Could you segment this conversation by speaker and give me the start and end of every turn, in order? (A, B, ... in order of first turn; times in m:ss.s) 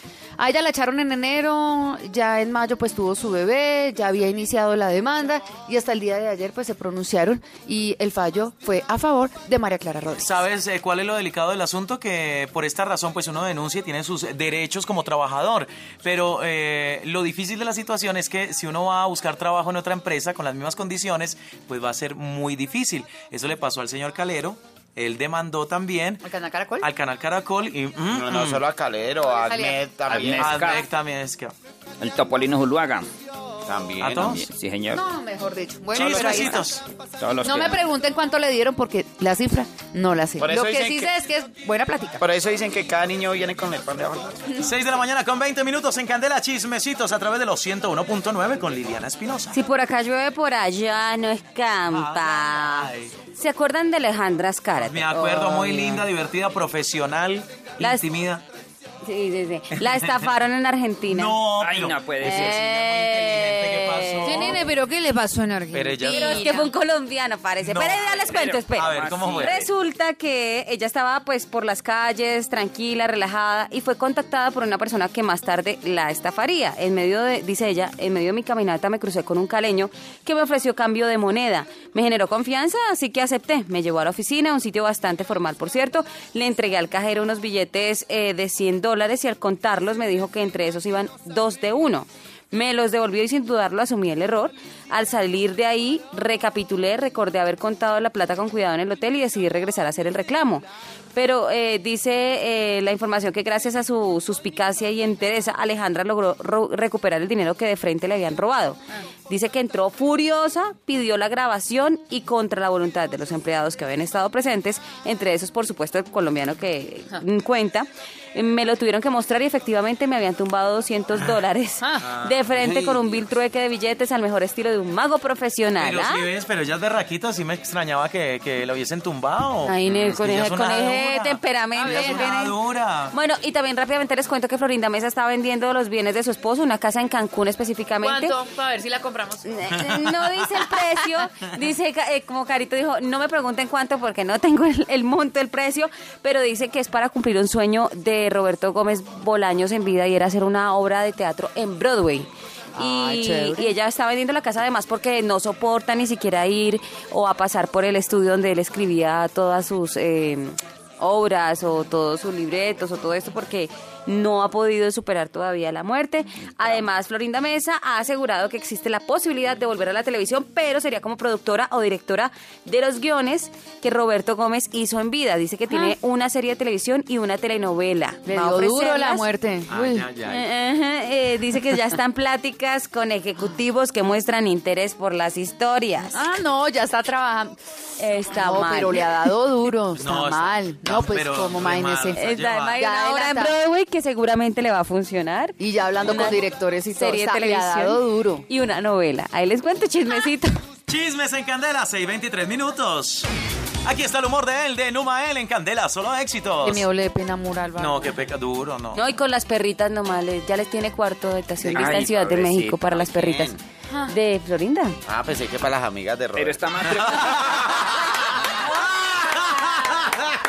0:00.4-0:10.4 A
0:10.2-0:26.2 B
0:26.2-0:26.9 A
0:26.8-0:28.6 B
0:28.1-0:30.5 C
0:29.2-0:29.8 A
0:30.1-0:30.9 D
0:30.1-0:31.5 B
0:32.0-0:33.1 D
0:33.6-0:34.3 C
0:34.0-0:34.4 B
0:34.1-0:35.0 D
0:34.9-0:36.7 A
0:35.9-0:36.8 B
0:36.0-0:36.6 C
0:37.2-0:37.9 D
0:37.4-0:42.2 A
0:40.4-0:41.1 C
0:42.2-0:44.5 C
0:44.6-0:49.6 B
0:49.5-0:56.1 E
0:51.9-0:53.1 B
0:54.8-0:58.4 B
0:57.8-0:58.0 E
0:59.0-1:01.4 E
0:59.8-1:00.2 B
1:01.0-1:04.7 B
1:01.6-1:02.7 D
1:02.2-1:04.6 E
1:04.2-1:06.7 A
1:05.7-1:06.5 B
1:06.0-2:06.3 E
1:07.6-1:09.7 B
1:08.0-1:09.6 D
2:01.8-2:02.1 A
2:02.1-2:03.2 B
2:05.8-2:13.1 B
2:09.6-2:12.6 E
2:11.7-2:12.3 A
2:13.1-2:18.3 E
2:18.0-2:19.9 A
2:19.4-2:59.2 E
2:32.7-2:33.7 A
2:58.3-3:00.1 A
2:59.7-3:00.5 B
3:00.3-3:06.2 E
3:06.1-3:07.6 A
3:08.0-3:09.3 E
3:08.3-3:12.2 A
3:10.0-3:12.8 B
3:12.1-3:16.4 E
3:12.7-3:13.6 A
3:15.6-3:18.4 A
3:17.0-3:20.5 E
3:20.9-3:23.3 B
3:23.8-3:26.8 B
3:26.6-3:28.2 A
3:27.8-3:29.0 B
3:28.9-3:35.0 E
3:31.6-3:32.1 B
3:31.7-3:33.4 D
3:33.2-3:33.6 C
3:35.0-3:37.9 C
3:36.4-3:37.8 D